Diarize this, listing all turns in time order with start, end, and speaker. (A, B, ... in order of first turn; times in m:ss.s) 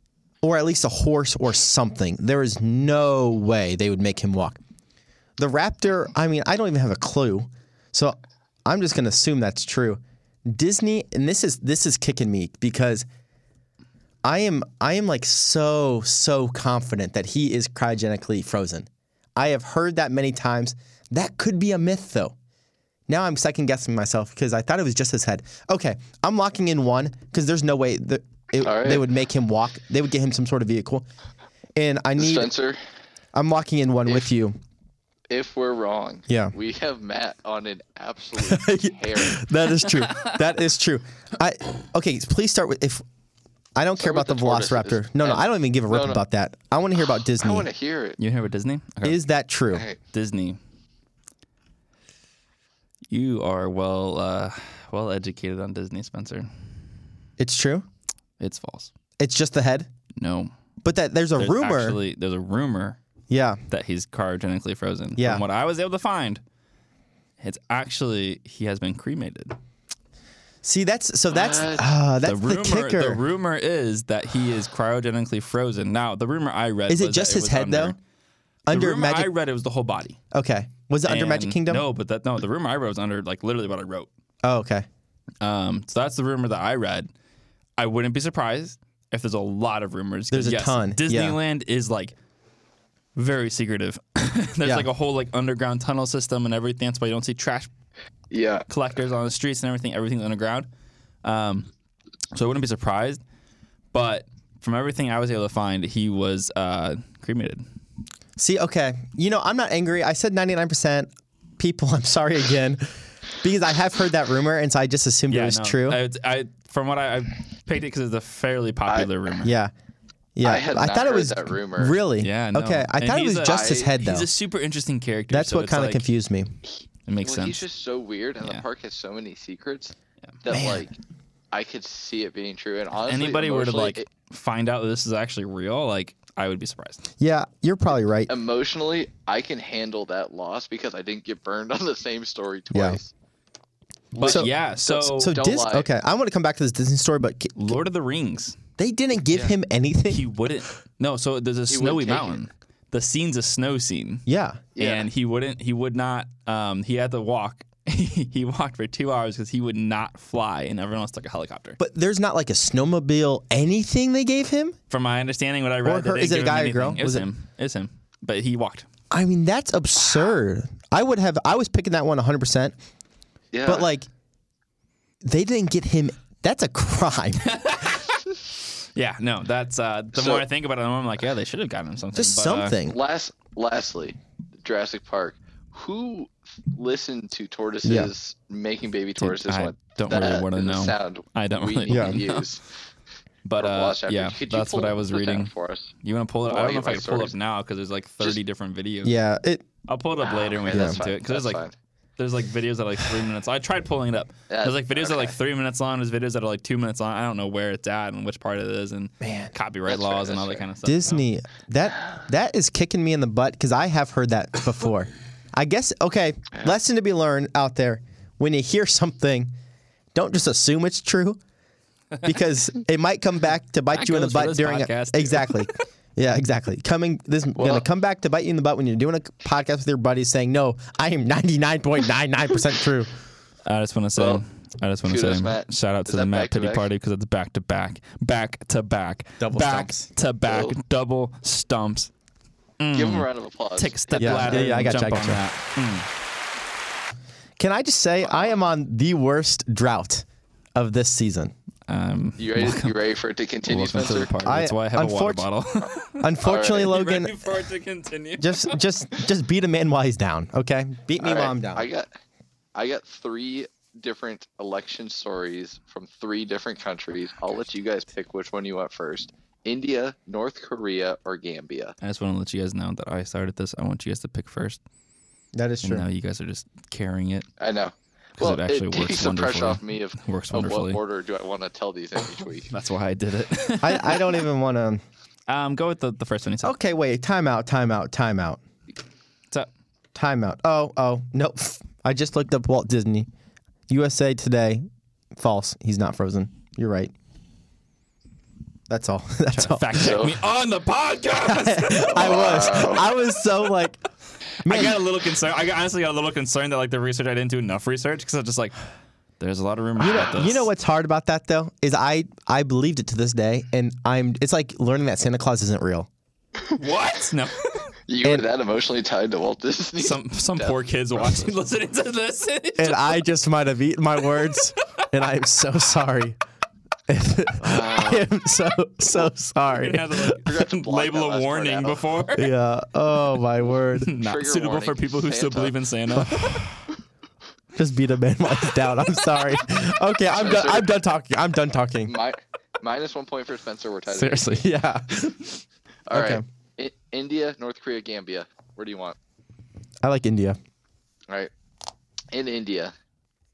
0:00.4-0:04.6 A
0:05.4-0:13.1 A
0:14.2-0:22.4 A
0:23.1-0:31.1 A
0:28.6-0:29.0 B
0:31.8-0:32.5 A
0:32.2-0:32.8 B
0:33.3-0:34.6 A
0:35.3-0:39.4 B
0:36.3-0:36.5 A
0:38.4-0:43.0 A
0:43.8-0:47.7 A
0:44.0-0:46.2 B
0:47.2-0:48.2 B
0:48.2-0:49.2 C
0:49.0-0:49.9 A
0:49.7-0:50.0 B
0:50.1-0:50.6 C
0:53.1-0:56.5 C
0:57.4-0:57.9 A
0:58.4-0:58.9 C
0:59.2-0:59.9 A
1:00.2-1:00.5 C
1:00.8-1:02.0 A
1:01.4-1:03.0 C
1:03.3-1:03.6 A
1:03.7-1:06.4 C
1:05.2-1:05.4 A
1:07.4-1:09.6 C
1:10.6-1:13.2 A
1:11.3-1:12.0 B
1:12.2-1:18.0 C
1:16.9-1:18.0 A
1:18.7-1:19.3 A
1:18.7-1:20.2 C
1:20.3-1:21.9 A
1:21.0-1:24.1 C
1:24.4-1:24.9 A
1:25.4-1:27.1 C
1:27.8-1:32.2 C
1:30.3-1:31.4 A
1:33.2-1:37.7 C
1:38.3-1:38.7 B
1:38.7-1:40.7 C
1:41.2-1:41.7 C
1:42.3-1:43.2 C
1:43.9-1:47.6 C
1:48.4-1:56.0 A
1:55.3-1:59.5 C
1:58.9-1:59.1 B
1:59.4-1:59.7 A
2:00.4-2:04.3 A
2:00.4-2:02.0 B
2:02.2-2:06.1 C
2:03.4-2:03.9 B
2:05.3-2:06.5 A
2:06.6-2:11.0 B
2:07.1-2:07.6 C
2:10.5-2:10.9 A
2:11.5-2:14.1 B
2:13.1-2:17.1 C
2:17.2-2:18.3 A
2:18.3-2:23.1 B
2:22.7-2:23.0 A
2:24.2-2:25.9 B
2:24.2-2:25.3 C
2:24.2-2:24.5 A
2:25.2-2:27.8 A
2:27.6-2:28.6 C
2:28.8-2:30.2 A
2:30.1-2:34.2 C
2:31.7-2:32.5 B
2:34.3-2:34.6 A
2:34.8-2:35.1 B
2:34.8-2:41.8 C
2:41.8-2:44.8 A
2:44.9-2:48.9 C
2:45.8-2:47.3 A
2:49.1-2:52.8 A
2:53.5-2:53.9 B
2:53.7-2:54.1 A
2:55.2-2:57.6 A
2:57.4-2:58.2 C
2:59.0-3:02.8 C
3:00.2-3:00.5 B
3:02.1-3:03.0 A
3:02.9-3:12.6 B
3:07.8-3:08.1 A
3:09.2-3:12.5 C
3:11.9-3:12.2 A
3:13.4-3:15.5 C
3:13.6-3:15.9 B
3:16.0-3:19.2 C
3:16.5-3:17.3 B
3:19.0-3:19.6 A
3:19.9-3:21.6 C
3:20.2-3:21.7 B
3:20.7-3:21.0 A
3:22.2-3:31.3 C
3:24.5-3:25.4 B
3:29.2-3:29.5 A
3:29.9-3:30.7 B
3:30.8-3:39.5 A
3:40.1-3:41.4 A
3:42.2-3:53.1 A
3:43.9-3:45.8 C
3:47.6-3:47.8 B
3:53.7-4:02.1 C
3:54.2-3:54.4 B
3:55.0-3:56.9 B
3:59.4-4:00.1 A
4:00.5-4:00.8 B
4:02.8-4:06.1 C
4:02.9-4:05.0 B
4:04.2-4:05.4 A
4:07.6-4:11.5 A
4:11.9-4:13.0 C
4:12.4-4:14.3 B
4:13.7-4:18.8 C
4:14.4-4:15.5 A
4:16.2-4:17.4 A
4:16.4-4:17.0 B
4:18.4-4:21.9 A
4:21.2-4:22.1 B
4:22.8-4:32.0 B
4:32.0-4:34.8 C
4:35.6-4:36.1 A
4:35.8-4:37.5 C
4:37.6-4:42.7 B
4:38.4-4:41.0 C
4:42.7-4:44.4 C
4:43.8-4:45.0 A
4:45.5-4:46.7 C
4:46.6-4:48.6 A
4:50.2-4:53.3 A
4:53.9-4:54.8 A
4:55.4-4:57.1 A
4:58.9-5:00.2 A
4:59.5-5:02.5 C
4:59.9-5:00.3 B
5:01.4-5:04.0 A
5:02.1-5:03.1 B
5:04.6-5:08.8 C
5:04.6-5:05.0 A
5:09.4-5:10.7 C
5:10.0-5:16.1 A
5:16.8-5:17.9 C
5:18.1-5:21.6 B
5:20.0-5:23.2 C
5:22.8-5:26.4 A
5:27.1-5:30.4 A
5:27.6-5:28.3 B
5:29.7-5:32.5 C
5:30.4-5:32.1 B
5:32.4-5:34.1 A
5:34.0-5:36.7 C
5:34.2-5:35.7 B
5:36.1-5:36.7 A
5:37.7-5:42.1 A
5:40.4-5:40.9 B
5:42.1-5:44.7 B
5:44.1-5:45.6 A
5:46.1-5:49.2 B
5:46.1-5:46.4 A
5:50.0-5:50.6 A
5:52.3-5:52.9 B